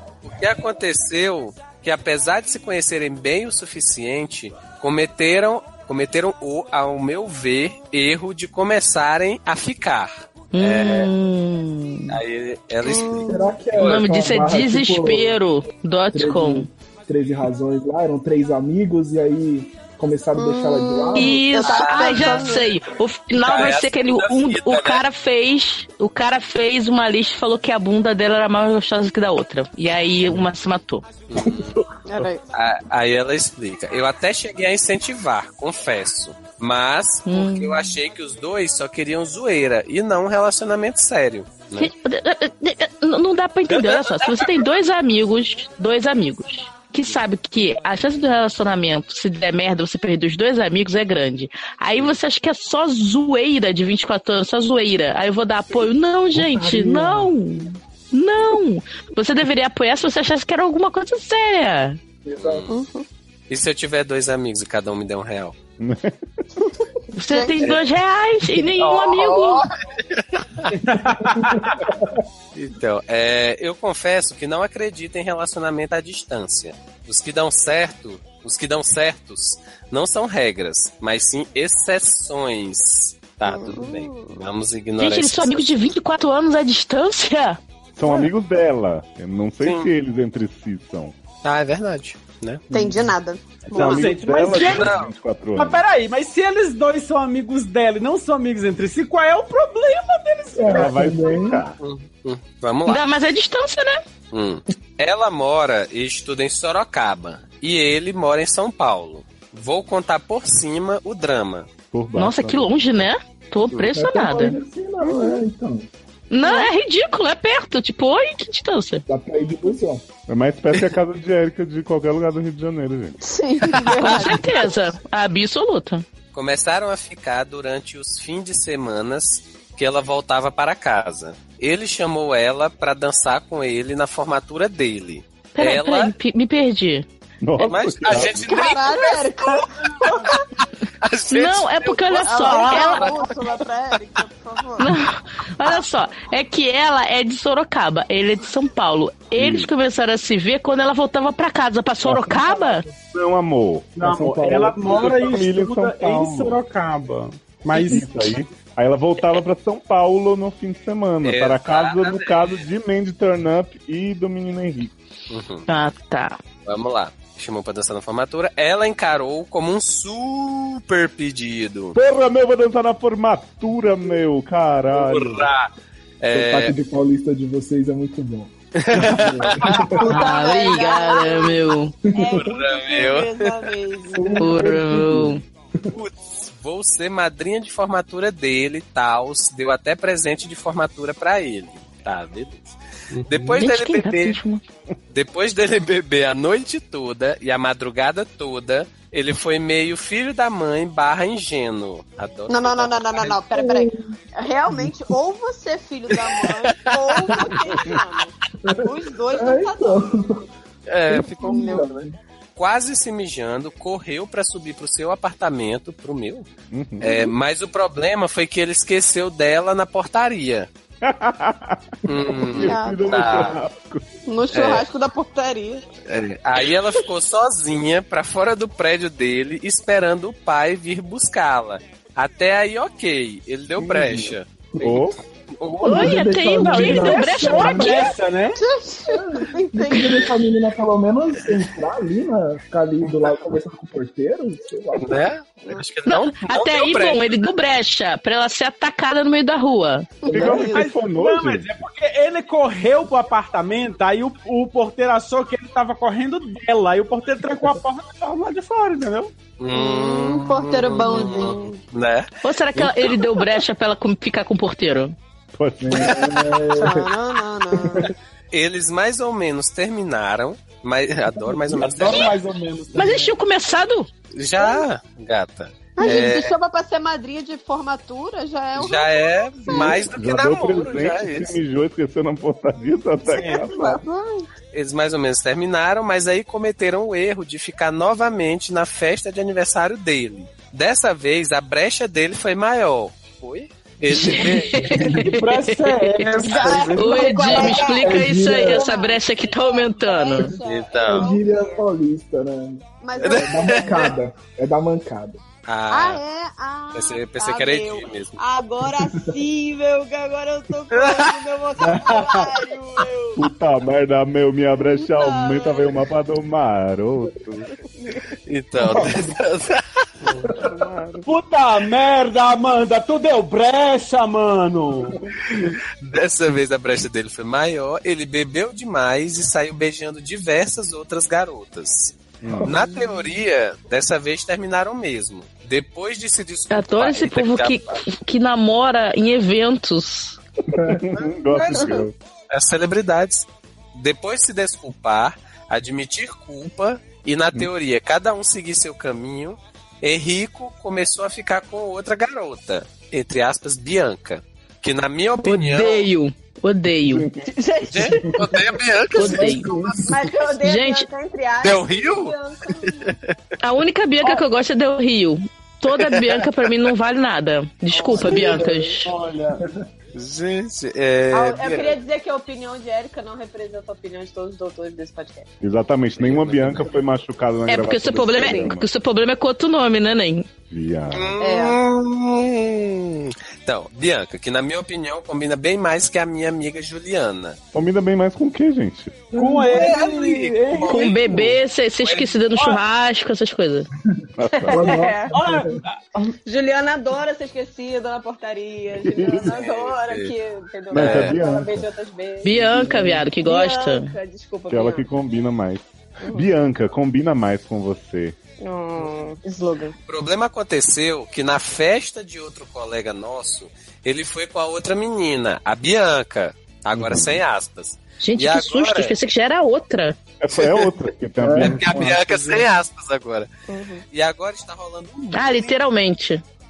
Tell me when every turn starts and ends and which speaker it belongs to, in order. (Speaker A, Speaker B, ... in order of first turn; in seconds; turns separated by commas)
Speaker A: 0.2-11.1, Speaker B: 10.5-12.2, Speaker A: 12.1-14.0, Speaker C: 12.8-13.5, Speaker D: 13.2-15.4, Speaker B: 13.8-16.7, Speaker D: 16.1-21.4, Speaker C: 20.4-22.7, Speaker B: 21.1-31.1, Speaker A: 21.6-22.5, Speaker A: 23.4-25.0, Speaker A: 31.3-31.8, Speaker C: 32.0-32.4, Speaker A: 32.5-41.9, Speaker B: 37.2-37.9, Speaker B: 41.8-62.0, Speaker A: 43.7-44.6, Speaker D: 56.4-57.6, Speaker D: 62.2-62.6, Speaker A: 62.3-62.7, Speaker C: 62.7-63.0, Speaker A: 63.5-65.5, Speaker E: 65.8-66.2, Speaker B: 67.1-69.6, Speaker C: 67.3-67.6, Speaker A: 67.6-67.9, Speaker A: 68.8-70.8, Speaker F: 70.7-71.8, Speaker D: 71.5-72.1, Speaker A: 72.5-85.8, Speaker C: 83.4-84.4, Speaker B: 85.0-87.6, Speaker E: 88.0-91.1, Speaker A: 89.6-89.9, Speaker A: 91.4-92.6, Speaker C: 92.7-94.1, Speaker E: 93.7-95.8, Speaker F: 93.7-95.0, Speaker A: 94.5-95.1, Speaker F: 95.5-101.4, Speaker D: 100.5-101.6, Speaker E: 100.7-101.8, Speaker A: 101.8-103.0, Speaker B: 102.9-104.0, Speaker A: 104.3-111.7, Speaker E: 111.9-113.1, Speaker B: 112.1-114.6, Speaker D: 113.9-115.9, Speaker C: 115.0-115.4, Speaker B: 116.3-119.0, Speaker C: 116.4-116.7, Speaker D: 119.1-120.0, Speaker E: 120.3-123.2, Speaker C: 123.2-124.6, Speaker A: 123.9-124.2, Speaker B: 124.0-126.0, Speaker A: 126.3-136.1, Speaker B: 135.6-137.1, Speaker E: 137.4-138.5, Speaker A: 137.6-140.4, Speaker C: 138.4-140.4, Speaker A: 141.0-143.6, Speaker B: 141.3-143.1, Speaker C: 142.2-144.9, Speaker B: 144.8-152.8, Speaker E: 149.3-149.7, Speaker E: 152.0-156.6, Speaker F: 153.9-158.1, Speaker D: 154.0-155.0, Speaker E: 157.7-164.9, Speaker A: 161.2-162.7, Speaker A: 165.3-165.6, Speaker B: 165.7-166.4, Speaker A: 166.7-172.0, Speaker E: 171.9-175.5, Speaker A: 174.9-175.7, Speaker A: 176.2-176.7, Speaker D: 176.3-180.2, Speaker A: 178.8-179.8, Speaker C: 180.0-184.4, Speaker B: 180.0-181.9, Speaker A: 182.4-183.6, Speaker D: 184.1-185.9, Speaker B: 184.4-185.4, Speaker A: 185.9-194.4, Speaker F: 193.1-193.6, Speaker B: 193.6-194.6, Speaker A: 195.1-203.4, Speaker C: 202.5-210.1, Speaker D: 203.5-204.2, Speaker A: 206.7-207.3, Speaker D: 209.3-210.5, Speaker A: 210.9-211.9, Speaker D: 211.1-212.2, Speaker C: 211.4-211.9, Speaker A: 212.6-216.4, Speaker E: 216.7-217.0, Speaker A: 217.0-220.7, Speaker E: 221.0-224.1, Speaker A: 222.1-223.6, Speaker C: 222.6-223.4, Speaker C: 224.3-225.8, Speaker A: 224.5-224.9, Speaker A: 226.1-235.0, Speaker E: 233.8-235.2, Speaker A: 235.6-236.2, Speaker D: 235.8-238.1, Speaker B: 235.8-238.2, Speaker F: 236.6-238.6, Speaker C: 238.6-240.3, Speaker D: 239.1-245.2, Speaker A: 245.0-247.3, Speaker B: 246.1-250.3, Speaker C: 250.2-250.9, Speaker E: 250.3-251.8, Speaker F: 250.4-259.3, Speaker A: 259.6-263.5, Speaker C: 259.7-261.8, Speaker B: 262.4-265.1, Speaker E: 265.6-266.8, Speaker D: 266.1-267.0, Speaker C: 266.7-268.1, Speaker A: 268.5-272.3, Speaker F: 271.7-273.3, Speaker B: 272.9-274.1, Speaker A: 274.3-276.5, Speaker C: 274.6-274.8, Speaker C: 276.0-279.9, Speaker A: 278.8-281.6, Speaker E: 279.7-284.0, Speaker C: 283.3-284.5, Speaker A: 284.7-295.2, Speaker B: 294.1-295.9, Speaker F: 295.1-297.9, Speaker A: 296.2-297.0, Speaker C: 296.4-301.8, Speaker B: 296.9-300.6, Speaker D: 298.0-298.9, Speaker A: 300.6-301.3, Speaker D: 301.1-305.4, Speaker C: 303.0-304.1, Speaker A: 303.2-304.1, Speaker A: 305.6-306.2, Speaker C: 305.9-313.4, Speaker A: 306.9-308.4, Speaker A: 311.0-311.3, Speaker F: 311.8-312.6, Speaker E: 313.4-317.7, Speaker C: 314.9-315.9, Speaker A: 318.5-320.4, Speaker D: 318.9-319.3, Speaker E: 320.6-321.2, Speaker F: 321.2-325.2, Speaker A: 326.0-338.0, Speaker E: 332.4-332.7, Speaker C: 332.7-333.3, Speaker B: 336.7-340.4, Speaker D: 340.7-341.0, Speaker E: 340.7-342.1, Speaker A: 341.1-341.9, Speaker C: 341.7-342.1, Speaker A: 342.5-356.1, Speaker B: 355.4-357.3, Speaker E: 357.1-357.4, Speaker C: 357.4-358.2, Speaker A: 357.9-360.3, Speaker B: 359.1-359.7, Speaker D: 359.1-359.9, Speaker C: 360.1-363.1, Speaker B: 360.6-361.1, Speaker A: 361.6-362.3, Speaker B: 363.6-369.1, Speaker A: 365.9-366.5, Speaker F: 368.1-368.6, Speaker D: 368.1-368.6, Speaker F: 369.2-369.5, Speaker A: 370.1-372.0, Speaker C: 371.3-375.5, Speaker E: 375.6-378.9, Speaker A: 376.1-377.0, Speaker B: 377.7-380.5, Speaker C: 378.4-378.7, Speaker E: 380.7-381.3, Speaker A: 381.1-387.6, Speaker C: 381.4-381.8, Speaker E: 387.7-389.3, Speaker F: 389.3-391.0, Speaker D: 389.3-389.8, Speaker A: 389.7-392.4, Speaker B: 390.9-393.9, Speaker E: 394.4-395.0, Speaker D: 394.7-395.7, Speaker C: 394.7-395.3, Speaker F: 395.3-396.1, Speaker C: 396.4-402.9, Speaker E: 399.0-399.5, Speaker A: 399.4-400.3, Speaker E: 400.9-401.9, Speaker A: 400.9-401.4, Speaker B: 402.4-404.1, Speaker D: 402.6-403.2, Speaker C: 403.4-405.1, Speaker E: 404.7-408.4, Speaker C: 408.6-409.9, Speaker A: 410.1-419.1, Speaker E: 416.9-417.4, Speaker B: 418.2-420.2, Speaker E: 420.4-422.6, Speaker A: 420.5-420.9, Speaker D: 421.4-421.8, Speaker A: 421.6-423.5, Speaker C: 423.7-424.0, Speaker A: 424.1-425.7, Speaker B: 425.3-426.4